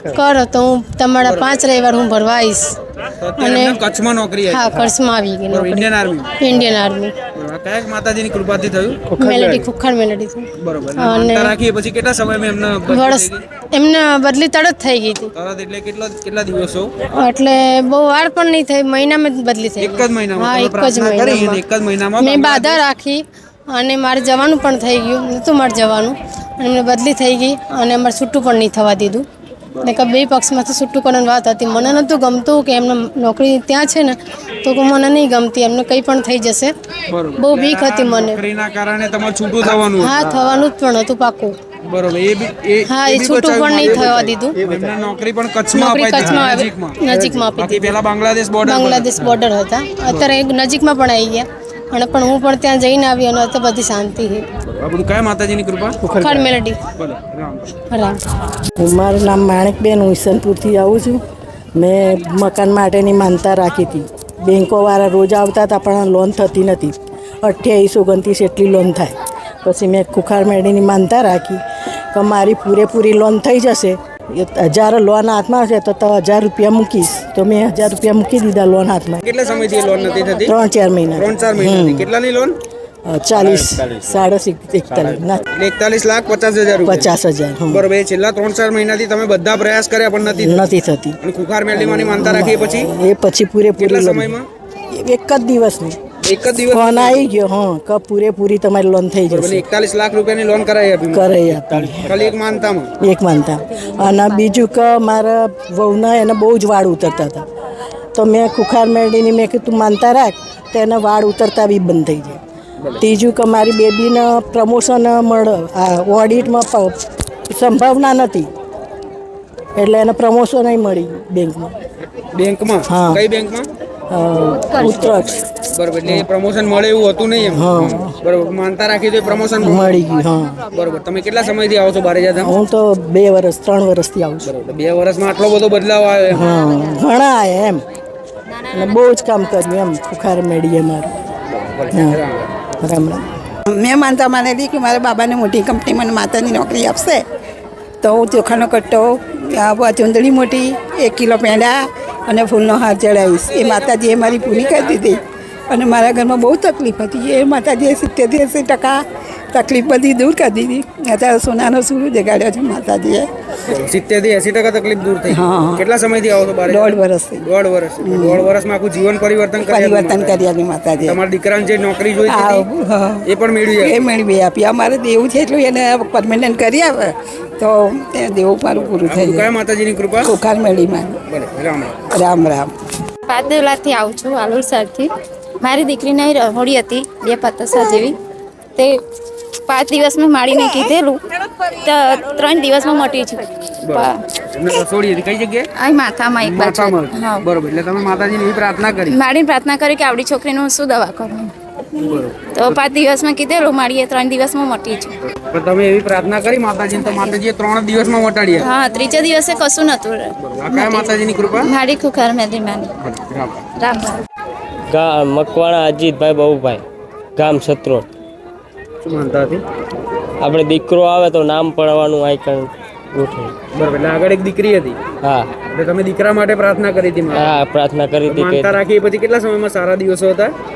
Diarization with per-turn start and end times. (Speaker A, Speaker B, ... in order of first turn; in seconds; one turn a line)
Speaker A: 0.1-2.7
Speaker B: 1.2-1.5
Speaker B: 3.2-4.8
Speaker A: 3.4-3.8
Speaker A: 4.5-5.9
Speaker B: 5.5-6.3
Speaker A: 6.4-7.1
Speaker B: 7.3-9.7
Speaker A: 9.2-11.6
Speaker B: 10.6-13.4
Speaker A: 12.9-15.3
Speaker B: 15.3-16.9
Speaker A: 17.2-21.6
Speaker B: 19.8-22.8
Speaker A: 22.2-29.2
Speaker A: 29.8-36.8
Speaker B: 37.1-40.4
Speaker A: 37.4-38.4
Speaker A: 39.6-41.5
Speaker B: 41.9-49.1
Speaker A: 42.9-44.6
Speaker A: 45.7-48.0
Speaker A: 48.6-54.4
Speaker B: 50.1-50.3
Speaker B: 54.7-56.0
Speaker C: 56.0-56.4
Speaker A: 56.2-56.8
Speaker B: 57.0-57.7
Speaker A: 57.9-58.2
Speaker C: 58.8-61.2
Speaker C: 61.8-71.6
Speaker C: 72.1-79.2
Speaker B: 79.2-80.5
Speaker C: 80.4-82.1
Speaker B: 81.2-82.6
Speaker C: 83.1-85.4
Speaker B: 85.5-87.1
Speaker C: 86.8-87.8
Speaker B: 87.7-90.6
Speaker C: 90.3-91.2
Speaker B: 91.2-92.9
Speaker C: 91.8-94.4
Speaker B: 93.8-94.5
Speaker C: 95.0-96.0
Speaker B: 96.2-97.3
Speaker C: 96.7-99.6
Speaker B: 99.3-102.9
Speaker C: 101.1-102.1
Speaker C: 103.0-107.4
Speaker C: 108.2-112.4
Speaker C: 113.0-117.0
Speaker C: 117.5-118.5
Speaker C: 119.8-121.8
Speaker B: 122.3-123.7
Speaker C: 122.9-123.2
Speaker C: 124.1-125.5
Speaker B: 124.8-130.0
Speaker C: 127.4-128.1
Speaker C: 129.6-130.7
Speaker B: 130.7-132.5
Speaker C: 132.4-134.5
Speaker B: 134.4-136.4
Speaker C: 136.3-137.8
Speaker C: 138.7-141.1
Speaker B: 141.5-142.5
Speaker C: 141.9-142.2
Speaker C: 142.8-143.3
Speaker D: 143.8-147.2
Speaker D: 148.0-151.8
Speaker D: 152.3-155.2
Speaker D: 155.7-159.0
Speaker D: 159.5-163.3
Speaker B: 163.7-172.7
Speaker D: 165.3-165.8
Speaker D: 166.7-167.5
Speaker D: 168.0-168.4
Speaker D: 169.7-171.2
Speaker D: 172.3-173.2
Speaker B: 173.2-173.9
Speaker D: 173.8-179.5
Speaker B: 179.1-180.3
Speaker D: 180.3-181.2
Speaker B: 181.3-182.0
Speaker D: 182.2-182.7
Speaker E: 183.3-185.1
Speaker E: 185.6-188.2
Speaker E: 189.7-191.2
Speaker E: 191.8-194.2
Speaker B: 193.8-195.7
Speaker E: 195.8-197.4
Speaker B: 196.4-199.2
Speaker E: 199.1-201.5
Speaker B: 202.1-202.8
Speaker E: 202.5-205.1
Speaker B: 205.4-208.7
Speaker E: 207.1-207.3
Speaker E: 208.6-212.9
Speaker B: 210.4-211.7
Speaker B: 213.0-213.6
Speaker E: 213.8-214.1
Speaker F: 214.9-216.8
Speaker F: 217.4-218.1
Speaker B: 219.0-219.6
Speaker F: 220.4-223.5
Speaker B: 223.7-225.0
Speaker B: 225.7-227.5
Speaker F: 227.3-228.8
Speaker B: 228.3-230.5